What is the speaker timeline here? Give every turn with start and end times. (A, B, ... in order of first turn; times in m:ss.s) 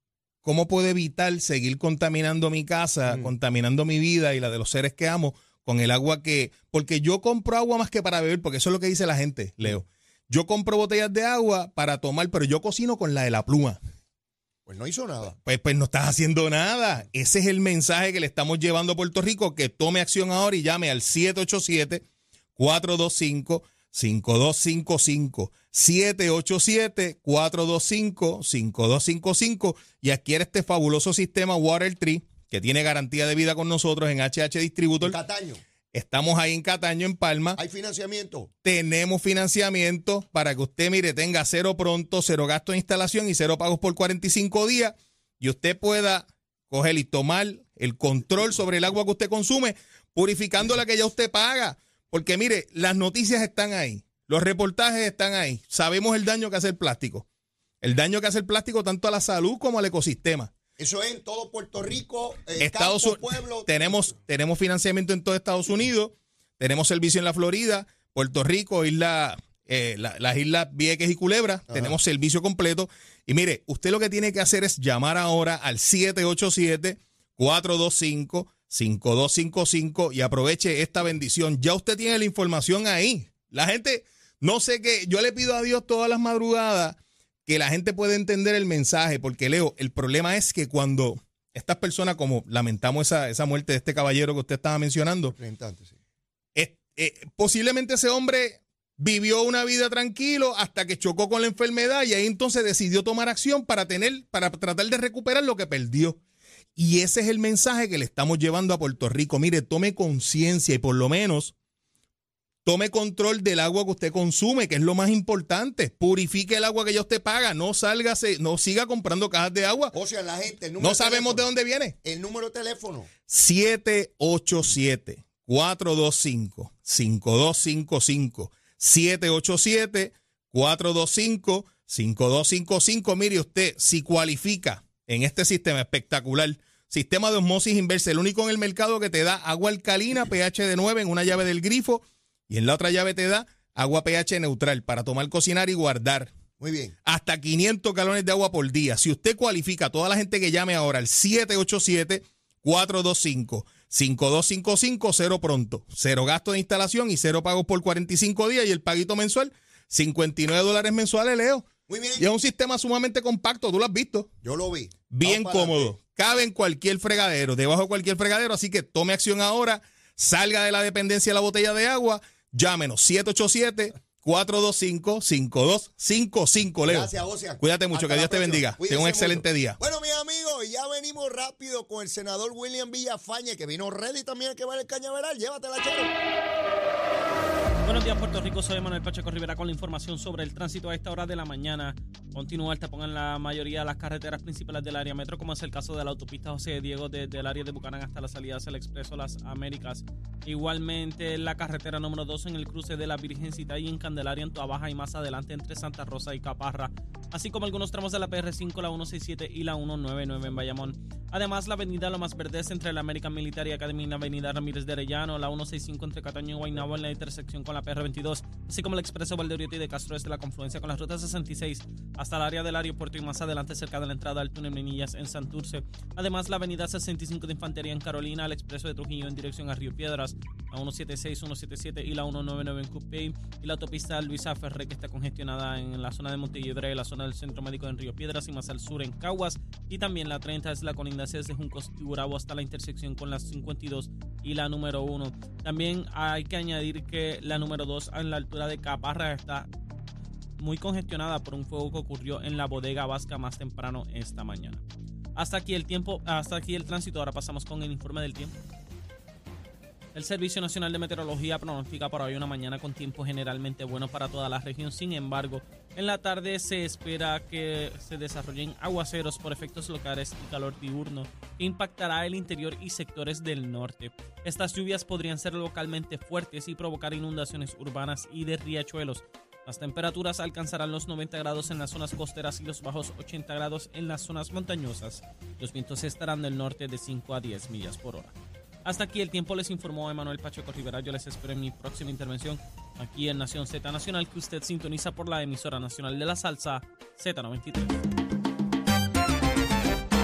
0:00.4-0:13.8 A
0:14.6-0:15.4 B
0:15.4-0:22.0 A
0:22.6-0:35.2 A
0:35.0-0:35.6 B
0:35.9-0:37.6 A
0:37.6-0:38.5 B
0:38.6-0:57.2 A
0:57.8-1:00.5 A
1:00.8-1:04.1 B
1:02.6-1:35.3 A
1:35.3-1:36.0 B
1:36.5-1:46.2 A
1:46.8-1:51.5 A
1:52.6-1:59.9 A
1:59.9-2:01.5 B
2:00.8-2:02.0 A
2:02.0-2:03.1 B
2:03.3-2:26.3 A
2:26.6-2:26.9 B
2:27.0-2:44.3 A
2:41.9-2:42.2 B
2:44.4-2:45.9 B
2:45.1-2:59.8 A
2:56.8-3:06.1 B
3:07.8-4:09.7 C
4:10.6-4:14.8 C
4:15.4-4:18.5 C
4:20.1-4:58.0 C